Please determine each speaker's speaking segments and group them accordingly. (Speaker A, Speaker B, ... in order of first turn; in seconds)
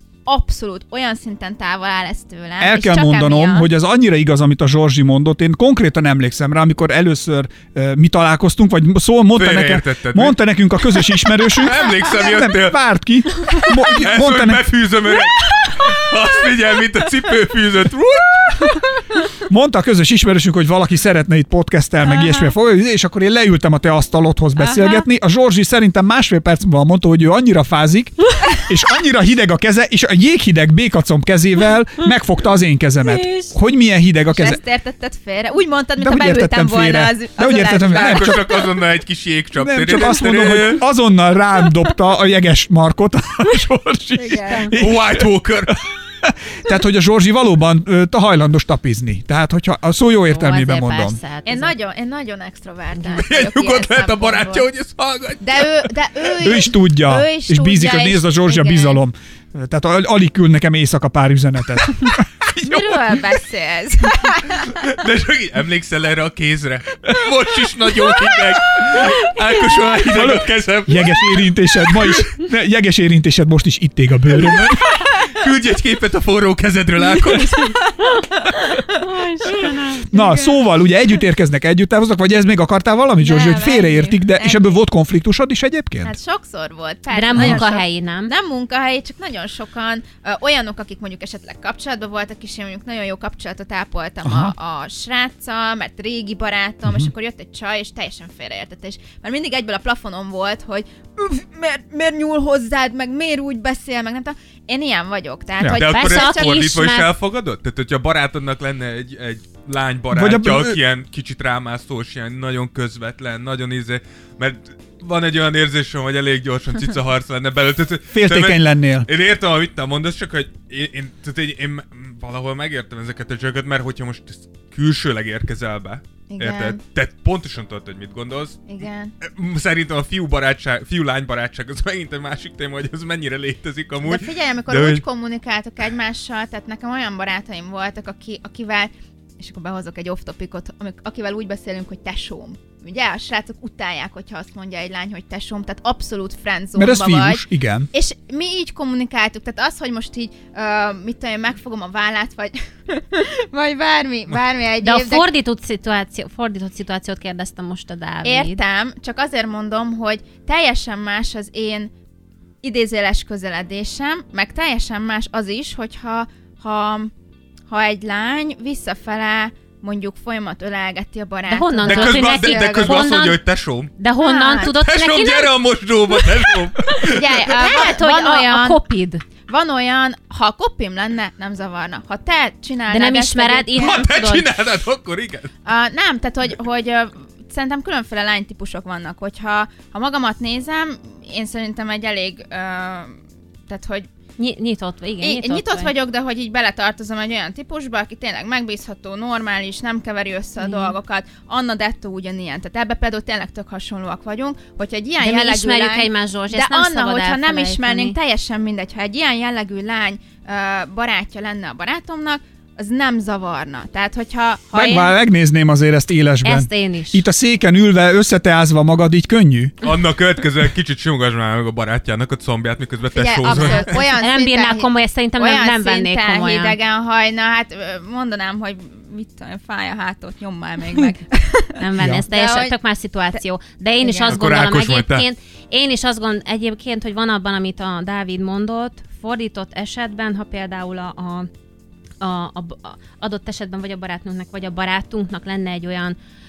Speaker A: 0.3-3.7, 34.3-38.6, 44.1-44.8, 51.5-54.7, 55.4-59.0, 62.5-64.8, 77.6-78.2, 83.2-84.8, 86.0-106.6, 126.3-126.8, 128.7-129.1, 134.0-155.3, 158.2-161.9, 162.6-167.1, 167.7-173.2, 174.2-174.7, 177.0-178.8, 179.5-184.0, 185.7-194.1, 195.2-215.1, 223.1-232.8, 234.0-234.4
Speaker B: 2.6-14.7, 19.4-34.6, 36.0-38.6, 39.6-51.2, 56.4-63.1, 70.1-74.9, 80.1-86.2, 87.3-87.6, 94.2-94.5, 110.1-110.8, 118.1-119.1, 146.8-147.9, 214.7-219.7, 232.0-232.2
Speaker C: 9.3-10.4, 10.9-12.8, 13.5-18.8, 37.9-40.9, 44.7-45.8, 53.2-55.9, 64.7-72.2, 74.5-77.8, 105.7-128.6, 129.2-135.0, 171.8-173.9, 174.6-177.3, 183.8-185.5, 219.8-224.0, 234.3-235.2
Speaker D: 24.6-25.0, 33.1-33.5, 44.5-44.7, 50.3-51.8, 52.9-53.2, 78.9-80.5, 87.1-88.3, 105.8-107.1, 154.8-158.6, 171.5-173.4, 174.0-175.6, 176.8-179.2, 182.9-184.5, 194.4-195.9, 200.6-201.0, 205.2-208.2, 216.4-217.2, 223.5-226.8, 231.8-241.5, 242.2-246.2